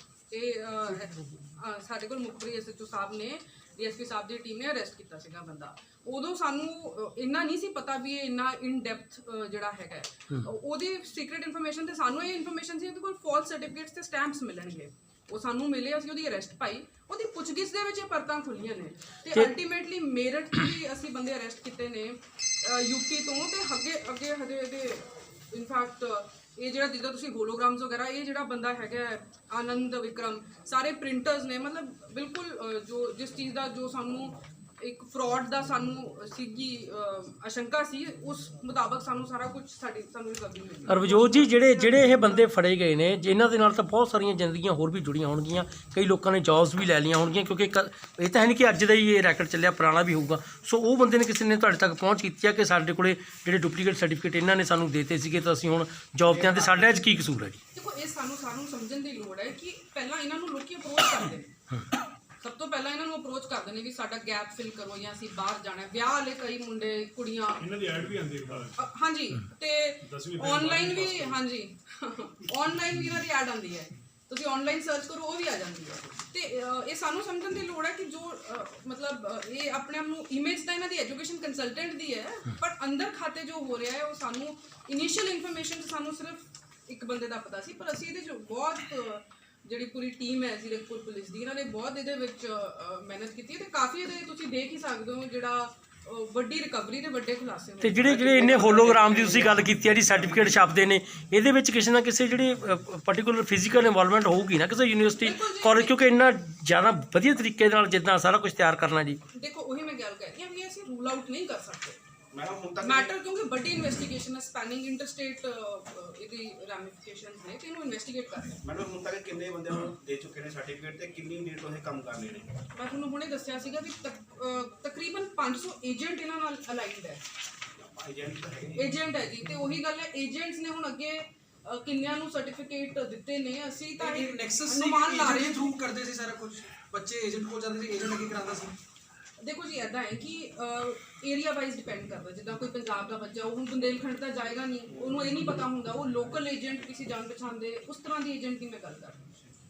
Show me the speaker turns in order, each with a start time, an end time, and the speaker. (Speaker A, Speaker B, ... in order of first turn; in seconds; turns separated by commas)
Speaker A: 0.3-42.5, Speaker B: 40.9-57.6, Speaker C: 56.3-57.1, Speaker A: 57.7-61.5, Speaker A: 62.4-67.7, Speaker D: 67.6-68.8, Speaker A: 68.8-98.6, Speaker D: 70.0-71.4, Speaker B: 97.8-109.2, Speaker C: 98.0-100.6, Speaker A: 105.1-106.0, Speaker A: 109.3-112.0, Speaker C: 112.3-113.1, Speaker A: 112.8-118.6, Speaker C: 118.6-122.6, Speaker A: 122.7-127.2, Speaker C: 127.8-128.9, Speaker A: 128.7-135.7, Speaker E: 134.0-138.8, Speaker A: 139.4-149.3